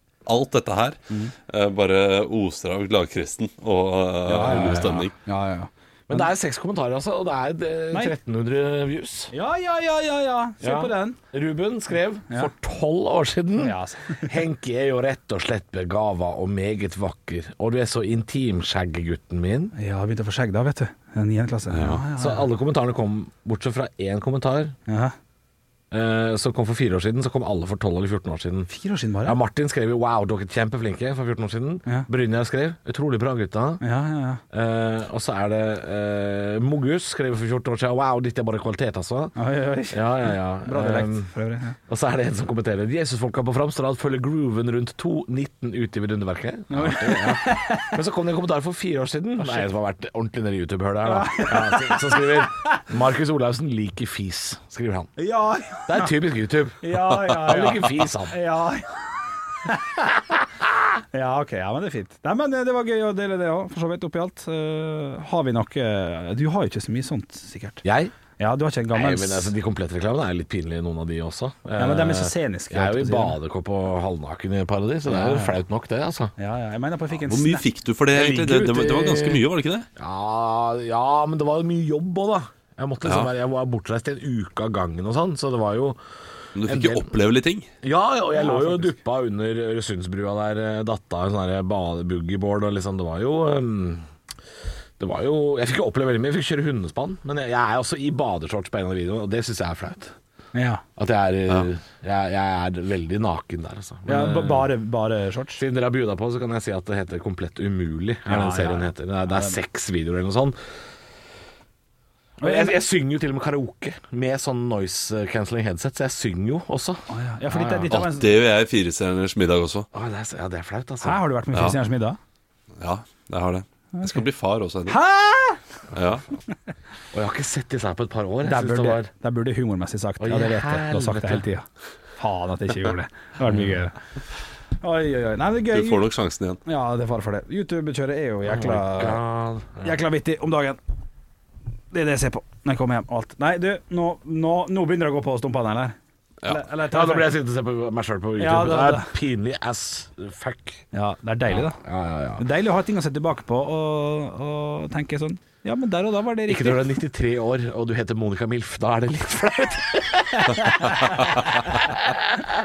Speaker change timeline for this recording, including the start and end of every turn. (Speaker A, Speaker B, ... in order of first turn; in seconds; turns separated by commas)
Speaker A: 0.2-5.1, Speaker B: 4.3-5.0, Speaker C: 4.3-6.3, Speaker B: 6.1-9.3, Speaker C: 9.3-11.2, Speaker B: 10.6-19.7, Speaker C: 13.6-14.3, Speaker C: 19.8-22.5, Speaker B: 21.7-24.8, Speaker C: 24.9-25.1, Speaker B: 25.9-28.7, Speaker C: 28.7-29.4, Speaker B: 29.2-33.8, Speaker C: 33.8-34.4, Speaker B: 34.5-39.4, Speaker C: 39.4-41.8, Speaker B: 39.9-41.3, Speaker B: 41.9-55.1, Speaker C: 46.7-48.0, Speaker C: 51.0-52.5, Speaker C: 55.2-56.1, Speaker B: 55.9-58.4, Speaker C: 56.8-58.9, Speaker C: 59.6-60.0, Speaker C: 61.1-67.8, Speaker B: 67.8-68.1, Speaker C: 68.4-69.5, Speaker B: 68.9-76.3, Speaker C: 71.8-73.4, Speaker C: 75.1-75.6, Speaker C: 76.4-77.7, Speaker A: 77.2-79.9, Speaker B: 78.1-79.4, Speaker B: 80.0-86.0, Speaker A: 83.0-83.3, Speaker A: 86.5-87.7, Speaker B: 86.6-87.1, Speaker B: 87.8-94.0, Speaker C: 88.3-89.0, Speaker B: 95.0-100.1, Speaker C: 100.5-100.8, Speaker B: 101.0-104.7, Speaker C: 104.0-105.6, Speaker B: 105.6-110.6, Speaker C: 108.3-109.6, Speaker C: 112.4-112.8, Speaker B: 112.4-117.9, Speaker C: 117.1-118.3, Speaker A: 117.9-119.9, Speaker B: 119.9-121.2, Speaker C: 121.0-122.2, Speaker A: 122.8-125.0, Speaker C: 123.9-124.2, Speaker C: 124.9-125.6, Speaker A: 125.9-126.2, Speaker B: 127.1-129.1, Speaker C: 128.4-131.6, Speaker B: 130.2-131.4, Speaker C: 132.2-133.9, Speaker B: 133.4-133.8, Speaker C: 134.8-136.0, Speaker A: 135.7-136.6, Speaker C: 136.6-139.2, Speaker B: 138.4-140.0, Speaker C: 139.8-140.8, Speaker C: 141.9-147.3, Speaker B: 146.9-150.8, Speaker C: 148.4-149.1, Speaker C: 150.9-151.8, Speaker B: 151.5-152.4, Speaker C: 152.4-156.9, Speaker B: 156.4-160.6, Speaker A: 160.7-161.4